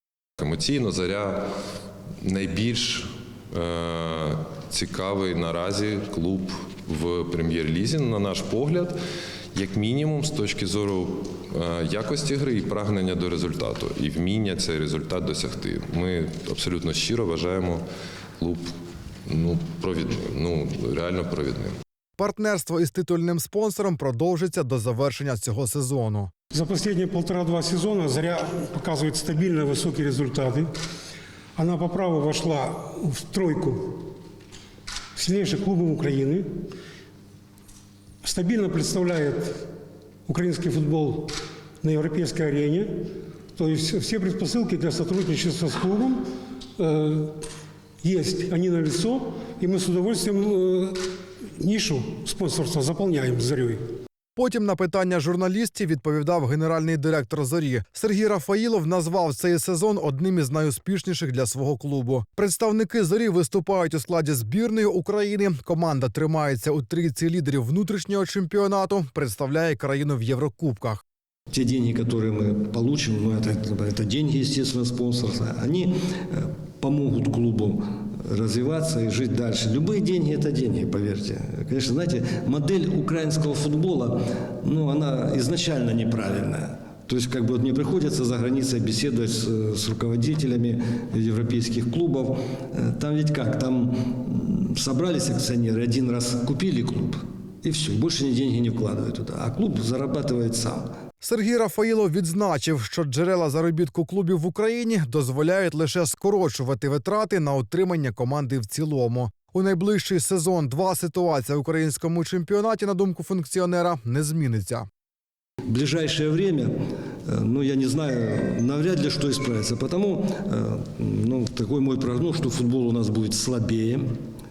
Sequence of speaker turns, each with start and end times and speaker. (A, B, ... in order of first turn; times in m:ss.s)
0:00.4-0:01.4 A
0:02.2-0:09.0 A
0:09.5-0:17.8 A
0:18.4-0:18.7 A
0:19.3-0:21.7 A
0:22.2-0:26.3 B
0:26.5-0:30.7 C
0:31.6-0:34.1 C
0:35.1-0:36.5 C
0:38.2-0:39.6 C
0:40.3-0:47.4 C
0:48.0-0:51.0 C
0:51.6-0:53.8 C
0:54.4-1:11.0 B
1:11.5-1:40.9 D
1:41.2-1:54.9 B
1:55.7-1:56.7 D
1:57.2-2:04.1 D